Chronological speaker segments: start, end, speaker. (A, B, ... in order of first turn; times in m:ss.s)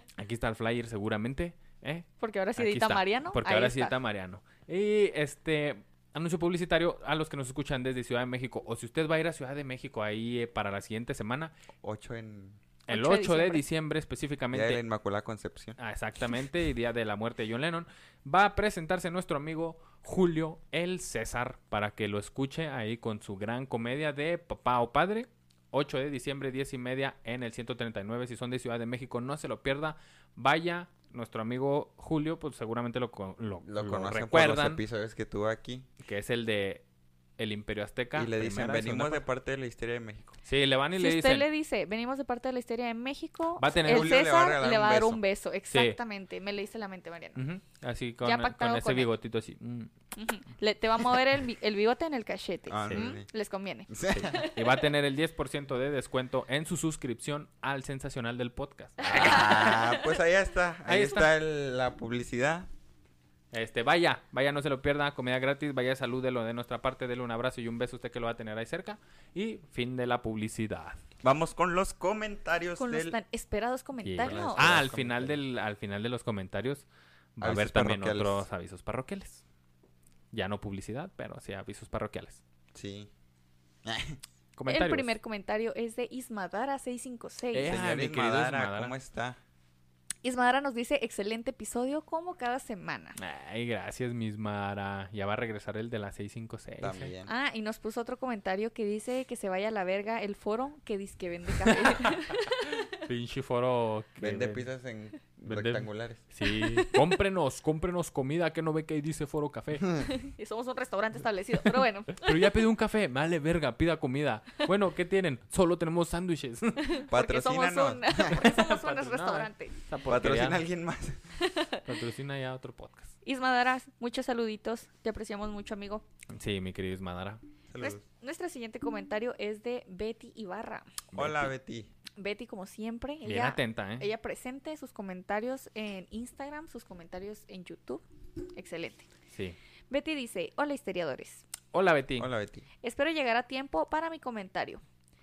0:00.2-0:11.5 A
0:02.2-0:03.9 B
0:11.8-0:12.6 C
0:12.9-0:13.6 B
0:12.9-0:14.8 A
0:14.5-0:15.8 C
0:15.8-0:34.8 A
0:33.6-0:35.9 C
0:36.0-0:36.8 A
0:37.4-0:39.2 A
0:38.1-0:40.3 C
0:40.4-0:41.5 A
0:41.0-0:47.4 B
0:43.6-0:44.2 A
0:43.8-0:45.2 C
0:45.7-0:46.0 A
0:47.3-0:49.9 A
0:48.2-0:49.1 B
0:50.1-0:54.8 B
0:52.7-0:53.2 C
0:52.9-0:53.2 A
0:53.9-0:54.4 C
0:54.1-0:59.9 A
0:59.0-1:00.2 B
0:59.0-1:02.7 C
1:00.8-1:01.3 A
1:03.5-1:11.0 A
1:11.2-1:13.2 C
1:12.8-1:14.7 B
1:14.0-1:19.4 A
1:14.2-1:15.4 C
1:17.4-1:18.4 C
1:20.3-1:22.4 A
1:22.7-1:23.1 C
1:23.8-1:24.2 C
1:24.6-1:25.1 A
1:24.7-1:27.7 B
1:27.5-1:28.9 A
1:27.6-1:29.4 C
1:30.2-1:33.2 B
1:33.2-1:37.1 A
1:36.8-1:37.3 C
1:37.2-1:43.0 B
1:41.6-1:42.2 A
1:42.9-1:44.6 A
1:44.2-1:46.2 C
1:45.4-1:50.0 A
1:46.4-1:47.1 B
1:50.0-1:52.5 B
1:52.2-1:57.0 A
1:56.8-1:59.8 B
1:57.1-1:58.4 C
1:58.3-2:00.6 A
2:00.0-2:01.2 C
2:01.4-2:01.8 B
2:01.8-2:03.1 A
2:03.2-2:06.0 B
2:06.3-2:07.4 A
2:07.7-2:08.0 C
2:07.8-2:11.0 B
2:11.1-2:11.5 A
2:11.1-2:11.9 C
2:12.2-2:18.0 B
2:13.2-2:14.1 A
2:18.5-2:19.1 B
2:19.9-2:21.4 B
2:21.7-2:22.3 A
2:22.2-2:22.7 C
2:22.8-2:24.8 B